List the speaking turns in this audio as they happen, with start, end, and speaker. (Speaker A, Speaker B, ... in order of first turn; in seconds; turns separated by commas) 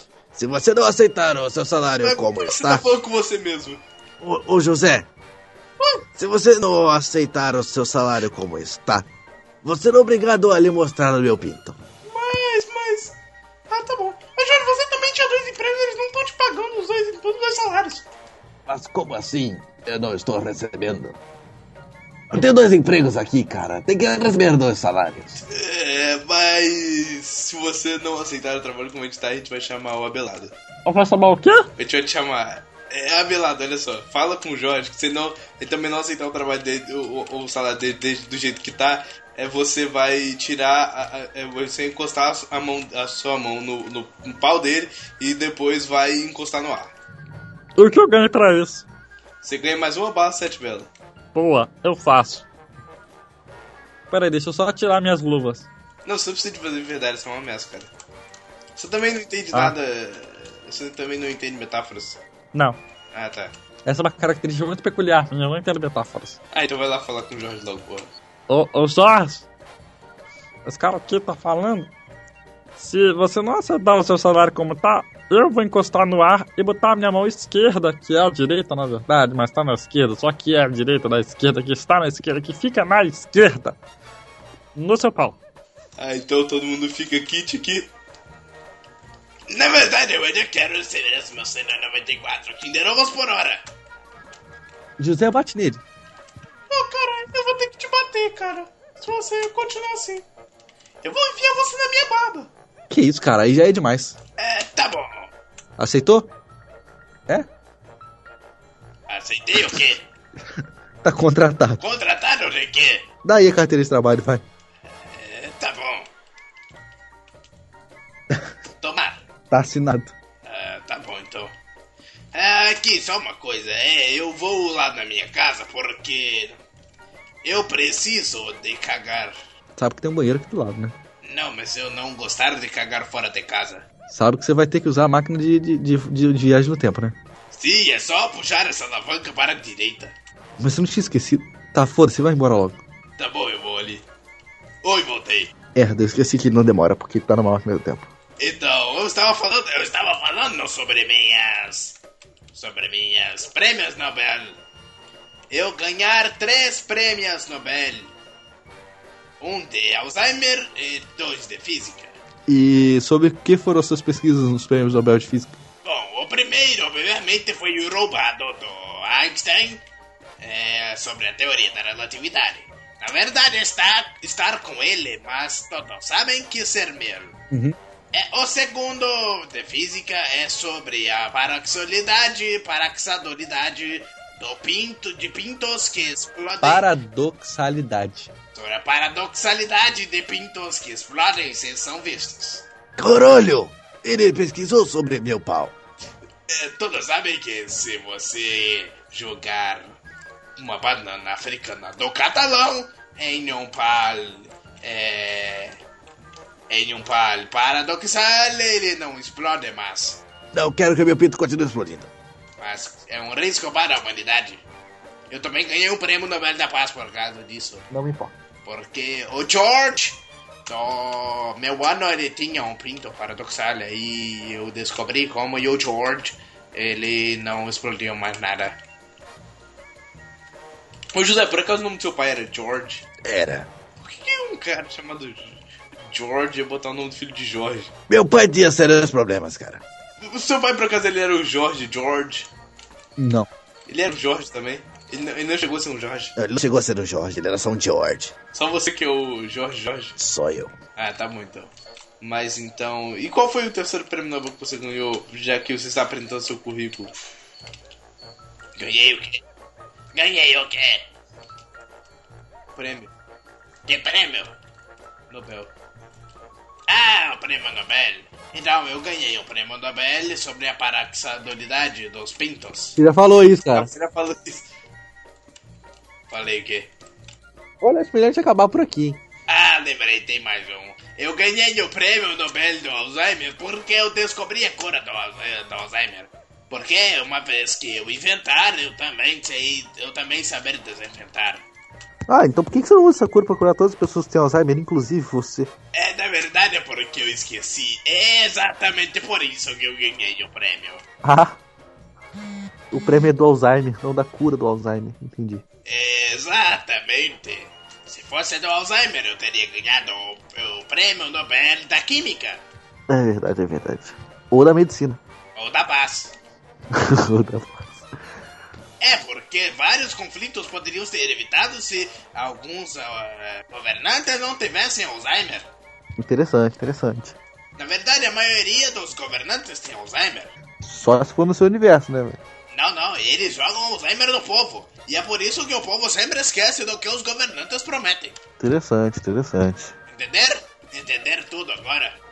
Speaker A: 0.3-2.9, Speaker B: 2.0-3.8, Speaker A: 4.2-5.1, Speaker A: 6.2-9.1, Speaker A: 9.6-11.8, Speaker C: 12.1-13.1, Speaker C: 13.7-18.1, Speaker A: 18.7-21.2, Speaker A: 22.3-25.4, Speaker B: 25.5-30.6, Speaker D: 30.9-31.7, Speaker B: 31.8-46.9, Speaker D: 47.8-48.9, Speaker B: 49.4-50.9, Speaker D: 51.4-52.5, Speaker D: 54.1-55.7, Speaker B: 56.0-57.9, Speaker B: 58.8-62.2, Speaker D: 62.5-62.8, Speaker B: 63.1-63.5, Speaker D: 63.9-66.4, Speaker B: 66.5-68.1, Speaker D: 68.5-69.5, Speaker D: 70.7-71.9, Speaker D: 72.8-83.8, Speaker D: 84.8-85.4, Speaker B: 86.0-87.9, Speaker C: 89.5-93.6, Speaker E: 95.0-95.8, Speaker C: 96.7-100.2, Speaker C: 101.0-102.5, Speaker E: 102.9-104.2, Speaker C: 104.4-105.3, Speaker E: 105.8-106.3, Speaker C: 109.1-110.1, Speaker E: 111.0-111.8, Speaker C: 111.8-113.1, Speaker E: 113.2-114.4, Speaker C: 115.0-116.1, Speaker C: 118.8-119.2, Speaker E: 119.5-120.1, Speaker C: 120.4-121.5, Speaker C: 122.3-126.6, Speaker C: 127.4-129.4, Speaker E: 129.8-130.9, Speaker C: 131.2-133.9, Speaker E: 134.1-137.2, Speaker C: 137.5-140.1, Speaker E: 140.6-142.8, Speaker C: 143.2-144.0, Speaker C: 144.8-145.5, Speaker E: 145.8-148.1, Speaker C: 148.4-152.0, Speaker C: 152.5-154.6, Speaker C: 155.5-158.2, Speaker C: 159.4-162.2, Speaker E: 162.5-165.6, Speaker C: 165.8-169.8, Speaker C: 170.4-177.4, Speaker E: 177.5-177.8, Speaker C: 178.1-186.9, Speaker E: 186.6-188.3, Speaker C: 188.5-192.7, Speaker A: 193.0-195.8, Speaker C: 196.5-200.0, Speaker C: 200.6-205.8, Speaker C: 206.7-210.2, Speaker A: 210.5-212.1, Speaker C: 212.6-214.6, Speaker C: 215.3-217.9, Speaker E: 217.9-218.3, Speaker C: 218.6-228.8, Speaker B: 231.1-233.1, Speaker A: 233.2-233.7, Speaker B: 234.0-237.9, Speaker A: 238.1-239.8, Speaker B: 240.2-242.5, Speaker E: 243.2-243.5, Speaker B: 243.9-246.3, Speaker A: 246.4-248.3, Speaker B: 248.5-250.2, Speaker A: 250.2-250.7, Speaker B: 251.0-257.1, Speaker C: 258.8-259.4, Speaker C: 260.1-261.1, Speaker B: 262.8-263.1, Speaker C: 263.9-264.6, Speaker B: 265.3-265.7, Speaker C: 266.9-273.0, Speaker E: 273.0-273.9, Speaker B: 273.7-274.7, Speaker C: 276.3-276.9, Speaker E: 277.8-279.2, Speaker C: 279.5-291.6, Speaker E: 292.3-295.7, Speaker C: 295.9-301.0, Speaker E: 301.2-301.6, Speaker E: 302.9-305.6, Speaker C: 305.9-312.6, Speaker E: 313.1-315.2, Speaker C: 315.6-316.3, Speaker E: 316.9-318.1, Speaker C: 319.0-325.7, Speaker E: 326.2-327.4, Speaker C: 327.8-330.5, Speaker E: 330.8-332.4, Speaker C: 332.7-338.4, Speaker E: 338.6-339.9, Speaker C: 340.1-342.2